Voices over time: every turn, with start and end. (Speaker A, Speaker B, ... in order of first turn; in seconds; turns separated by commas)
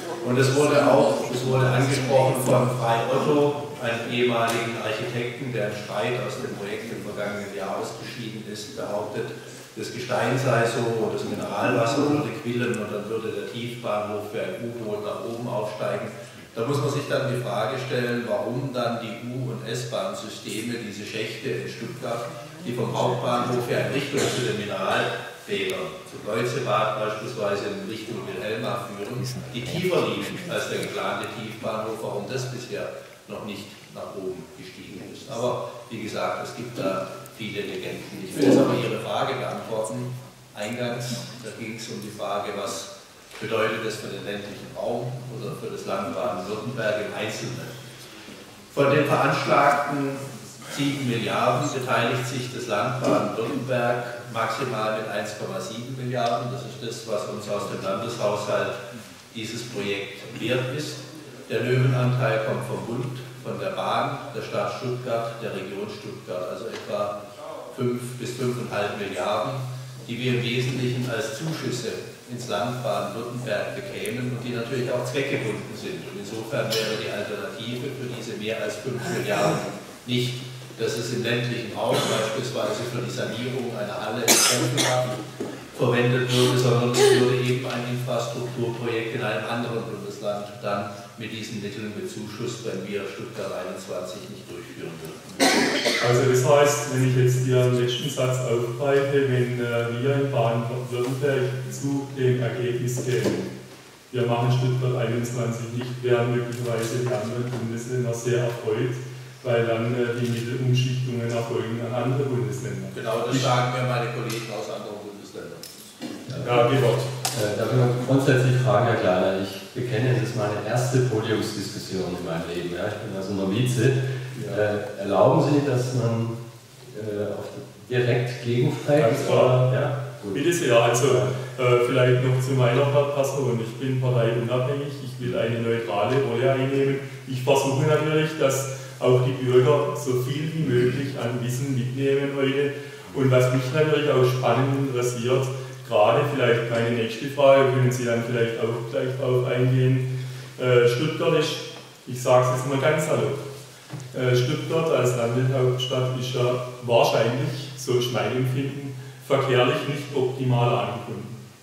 Speaker A: 0.2-47.7, Speaker A: 48.7-67.2, Speaker A: 67.7-85.2, Speaker A: 85.7-95.4, Speaker B: 96.0-103.5, Speaker B: 104.1-113.5, Speaker A: 112.9-115.8, Speaker B: 116.3-117.1, Speaker C: 117.3-126.4, Speaker C: 126.9-130.4, Speaker B: 129.0-129.6, Speaker B: 130.3-150.1, Speaker C: 131.0-131.3, Speaker B: 150.6-153.4, Speaker B: 154.1-161.4